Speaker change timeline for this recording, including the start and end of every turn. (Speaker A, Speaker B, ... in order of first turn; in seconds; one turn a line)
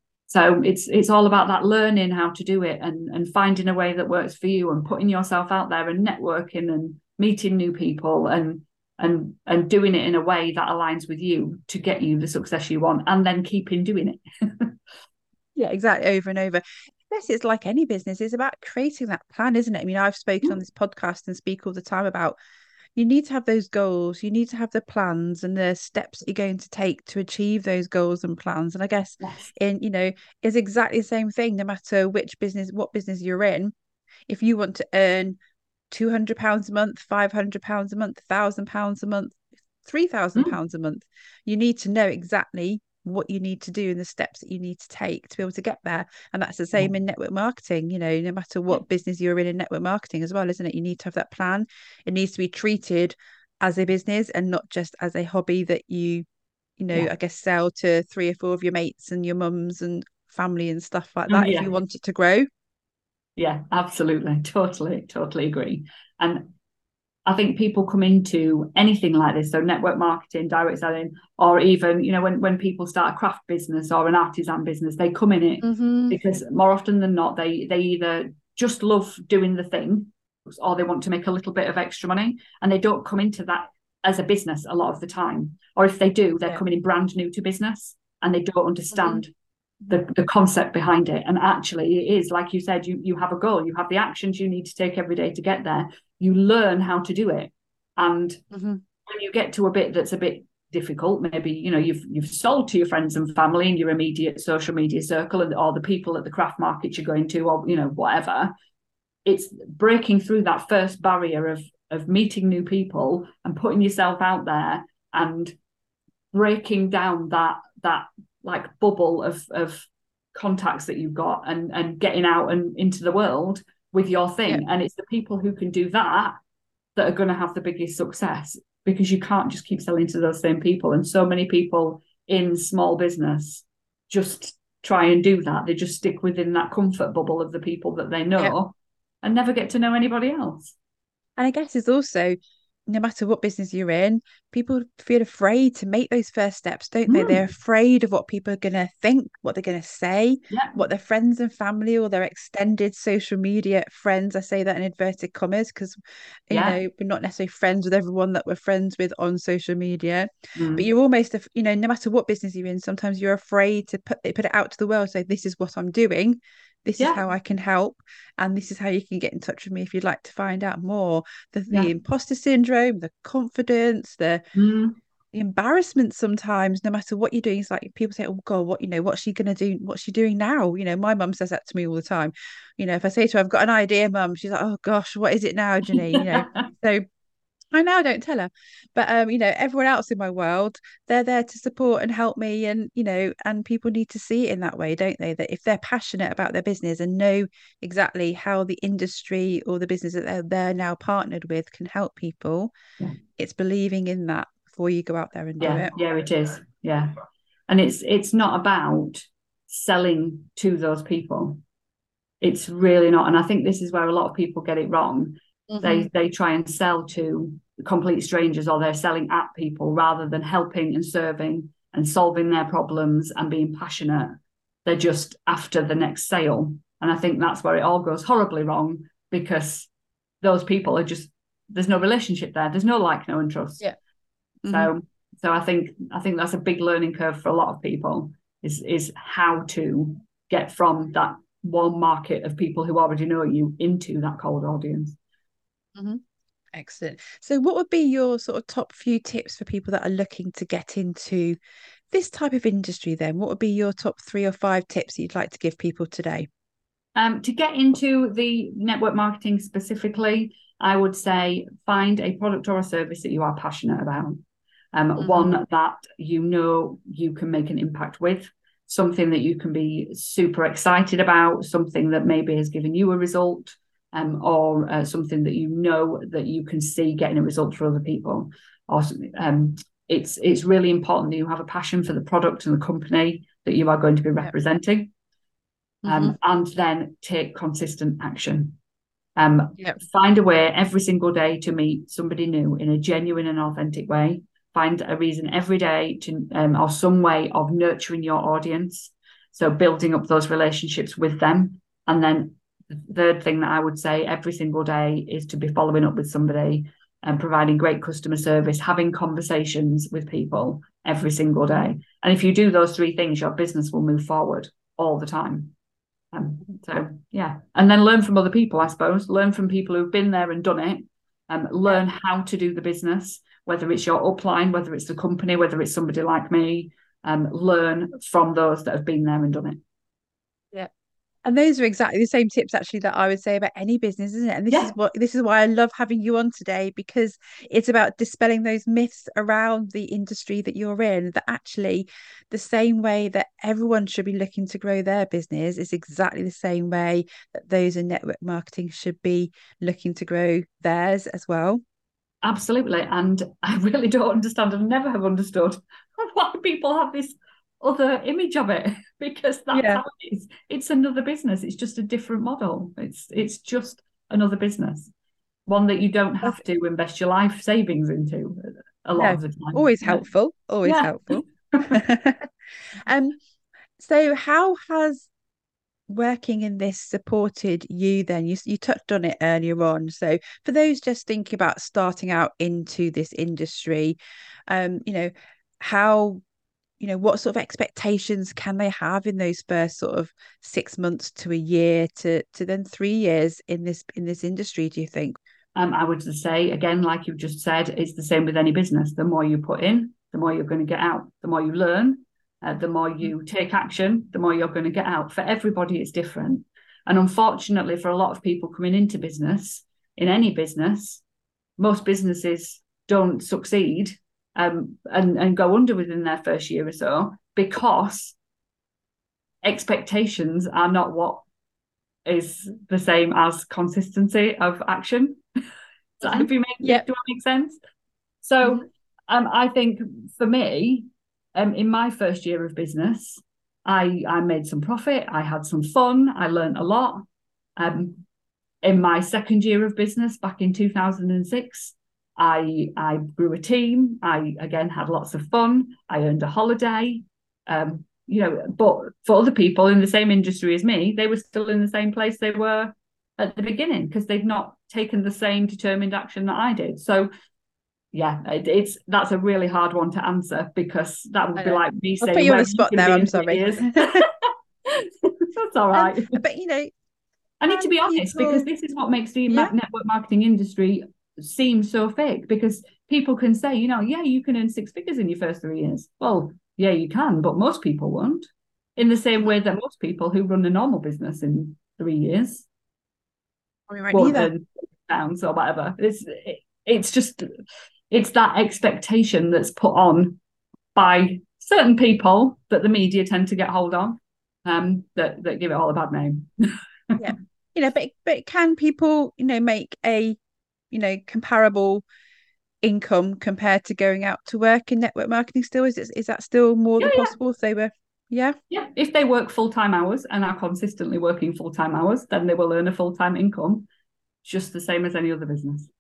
Speaker A: 0.3-14.8
Speaker B: 15.6-22.4
Speaker B: 23.0-33.7
Speaker A: 29.2-29.5
Speaker B: 34.3-35.4
Speaker B: 35.9-56.3
Speaker B: 56.8-62.5
Speaker A: 61.3-61.7
Speaker A: 63.4-66.5
Speaker A: 67.3-89.3
Speaker B: 75.6-76.2
Speaker B: 88.9-89.2
Speaker A: 89.9-98.4
Speaker B: 98.5-98.8
Speaker A: 99.1-108.5
Speaker A: 109.3-115.6
Speaker A: 116.3-126.4
Speaker A: 127.0-140.8
Speaker B: 141.4-174.4
Speaker A: 147.1-147.4
Speaker A: 150.5-150.8
Speaker A: 156.5-156.8
Speaker A: 160.6-160.9
Speaker A: 174.6-175.0
Speaker B: 175.3-187.0
Speaker A: 185.9-186.7
Speaker B: 187.7-202.8
Speaker B: 203.4-205.9
Speaker A: 205.6-207.1
Speaker A: 207.7-211.6
Speaker A: 212.4-229.9
Speaker B: 215.7-216.1
Speaker A: 230.4-233.9
Speaker B: 234.6-234.9
Speaker A: 234.7-245.2
Speaker B: 246.0-246.2
Speaker B: 246.7-251.6
Speaker B: 252.1-256.5
Speaker A: 257.2-285.1
Speaker B: 265.2-265.6
Speaker B: 286.0-286.4
Speaker A: 286.1-288.8
Speaker A: 289.4-315.7
Speaker A: 316.3-329.8
Speaker B: 331.4-351.8
Speaker A: 352.4-365.1
Speaker B: 359.7-360.0
Speaker A: 365.7-370.2
Speaker B: 369.2-373.4
Speaker A: 370.8-372.0
Speaker B: 374.0-375.3
Speaker B: 376.1-384.2
Speaker B: 384.7-386.4
Speaker B: 387.0-395.4
Speaker A: 395.8-411.2
Speaker A: 411.8-418.4
Speaker A: 419.6-421.4
Speaker A: 422.3-425.4
Speaker A: 426.2-427.8
Speaker B: 426.2-427.1
Speaker A: 428.4-437.2
Speaker A: 437.8-438.2
Speaker A: 438.8-457.3
Speaker A: 458.1-466.4
Speaker B: 461.6-464.2
Speaker B: 465.9-466.9
Speaker A: 467.6-482.7
Speaker B: 467.7-468.7
Speaker B: 483.9-484.5
Speaker A: 484.1-487.5
Speaker A: 488.1-490.4
Speaker A: 490.9-496.5
Speaker B: 497.2-500.4
Speaker B: 500.9-502.1
Speaker B: 502.8-508.6
Speaker A: 507.0-507.3
Speaker A: 508.7-513.9
Speaker A: 514.4-515.9